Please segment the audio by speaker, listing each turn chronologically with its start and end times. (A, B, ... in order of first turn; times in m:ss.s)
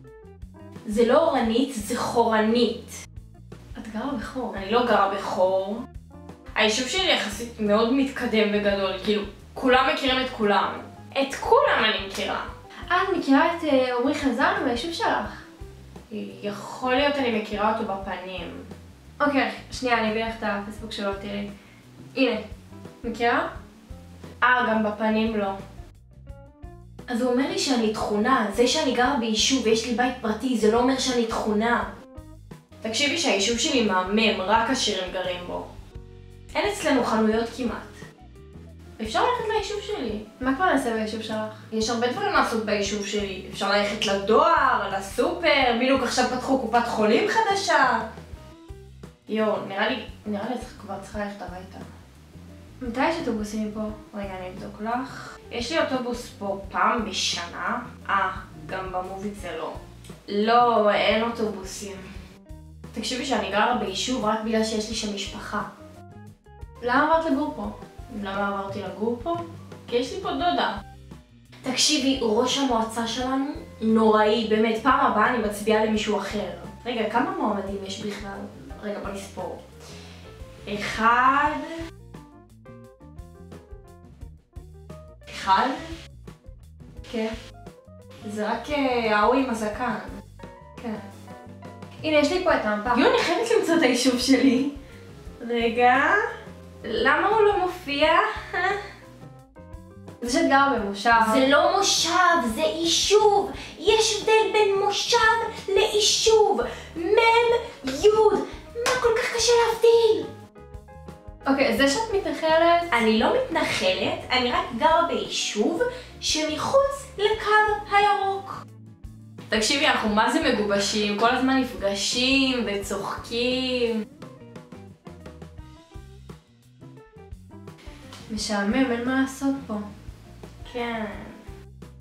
0:00.8-0:03.0 A
0:03.8-0:04.5 B
0:04.5-0:05.8 A
0:06.6-0:12.5 A
0:12.9-0:15.4 B
0:16.1-0:18.7 A
0:19.2-0:21.5 B
0:22.1-0:22.4 B
0:23.0-0:23.5 B
0:24.4-0:25.6 A
0:27.1-0:31.9 A
0:32.8-0:35.7 A
0:36.5-0:38.0 A
0:39.0-0:40.2 A
0:40.4-0:41.6 B
0:41.7-0:48.0 A
0:49.3-0:51.8 A
0:52.8-0:54.0 B
0:54.1-1:02.1 A
1:02.9-1:05.7 A
1:06.8-1:07.7 B
1:08.1-1:10.8 A
1:11.6-1:19.6 A
1:20.6-1:21.7 A
1:25.3-1:25.9 A
1:27.1-1:27.3 A
1:28.2-1:30.2 A
1:32.0-1:33.0 B
1:32.9-1:34.7 A
1:35.4-1:36.3 A
1:36.8-1:38.8 A
1:40.2-1:41.4 B
1:41.2-1:50.3 A
1:51.4-1:53.0 B
1:52.9-1:58.6 A
1:59.5-2:04.0 A
2:08.3-2:09.8 B
2:10.6-2:11.4 A